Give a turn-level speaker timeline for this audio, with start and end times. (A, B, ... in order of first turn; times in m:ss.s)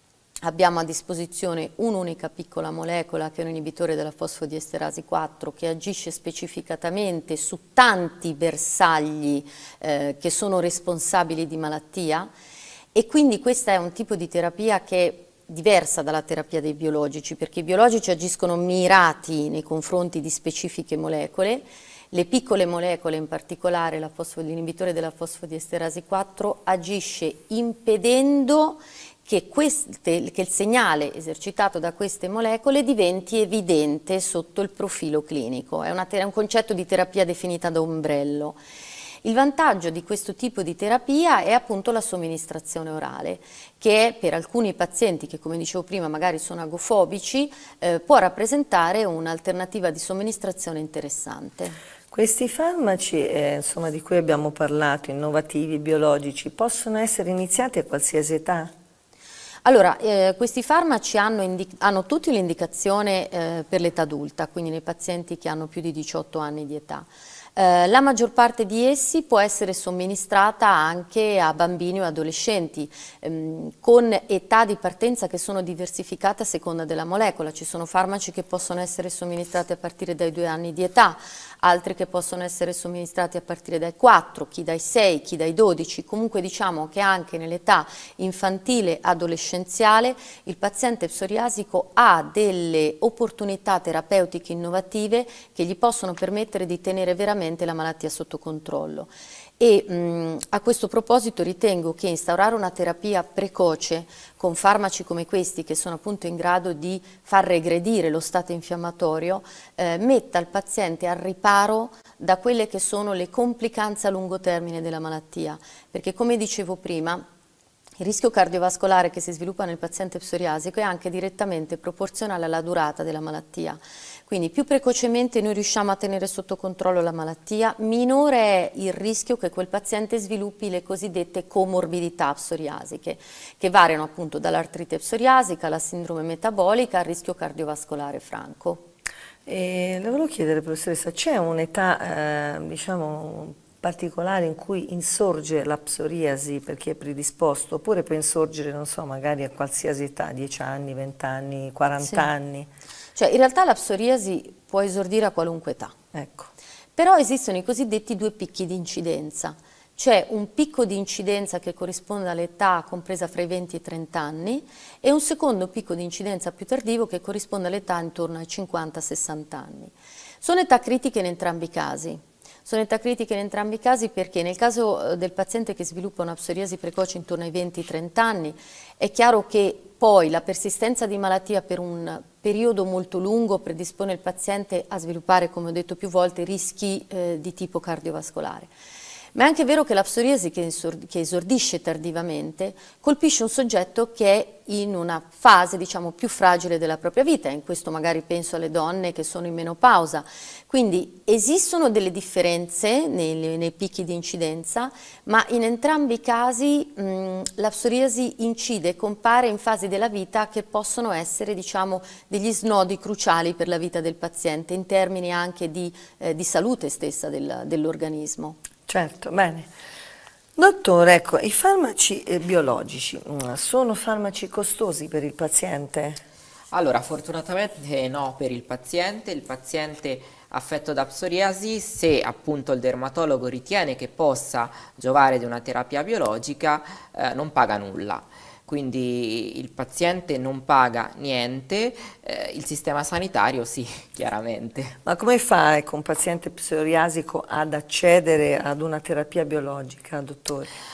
0:00.4-0:12.3 A
0:12.9-0:38.6 A
0:39.2-0:51.8 A
0:52.1-0:58.7 B
0:59.6-1:57.2 A
1:58.0-2:18.8 A
2:19.4-2:32.7 B
2:33.1-2:35.9 A
2:36.1-2:36.5 B
2:37.0-3:08.7 A
3:09.3-3:38.6 A
3:38.9-3:39.7 B
3:40.6-3:46.2 B
3:46.7-4:04.9 C
4:05.0-4:10.7 B